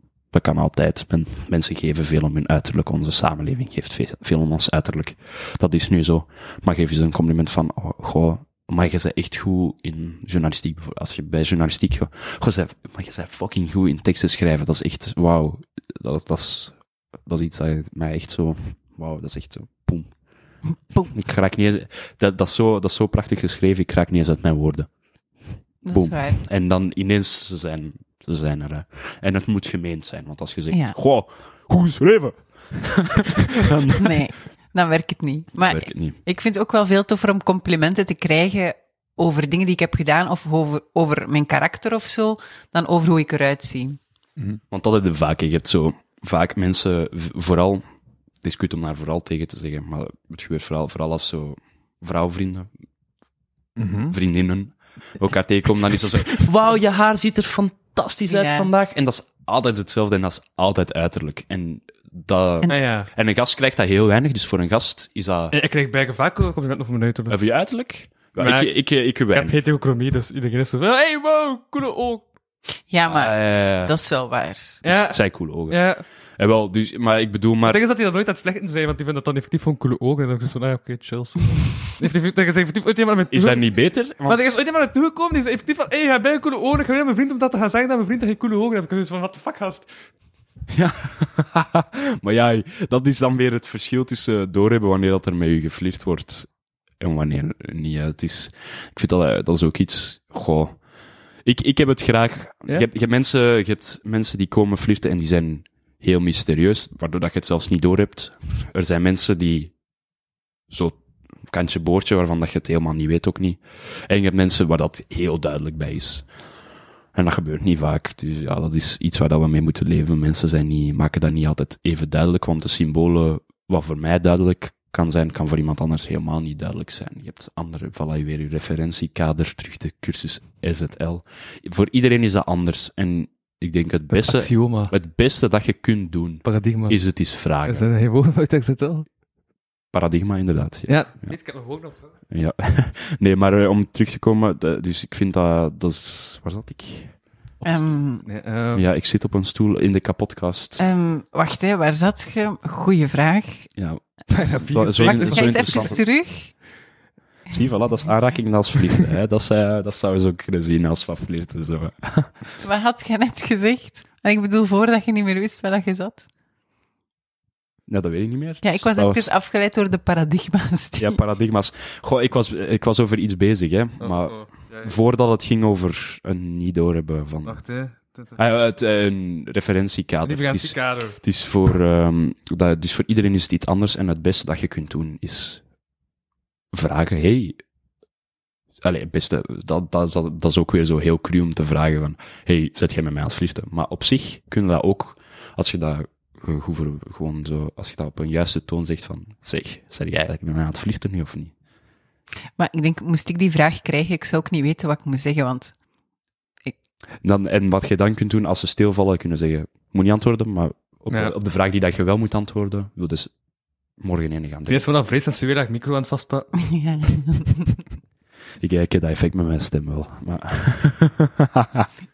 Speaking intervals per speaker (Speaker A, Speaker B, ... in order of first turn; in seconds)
Speaker A: 0.3-20.1, 21.0-24.9, 25.9-34.3, 35.6-36.2, 44.7-47.8, 48.4-52.7, 54.1-65.6, 67.3-69.6, 73.1-73.9, 74.8-75.9, 76.4-77.8, 83.3-84.6, 90.7-100.8, 101.5-109.7, 110.7-116.3, 117.1-137.9, 139.9-141.3, 142.3-147.2, 148.7-150.9, 153.8-156.0, 157.5-162.6, 167.9-169.3, 171.0-177.6, 178.4-185.6, 186.7-187.6, 188.8-201.5, 207.2-213.3, 214.0-214.9, 218.6-221.9
Speaker B: 25.9-26.4, 30.7-31.0, 34.0-44.0, 58.3-58.7, 72.9-74.8, 147.6-148.2, 150.8-153.7, 155.0-156.6, 162.6-166.2, 168.6-171.2, 202.6-205.7, 216.6-217.8
Speaker C: 53.8-54.2, 62.7-63.1, 65.5-67.4, 68.4-68.7, 69.3-72.3, 74.8-76.0, 77.6-83.7, 84.2-90.0, 134.1-134.9, 136.4-137.0, 137.7-139.1, 140.9-142.1, 148.2-148.8, 154.3-156.0, 174.0-175.0, 177.4-178.4, 180.2-181.2, 214.7-216.5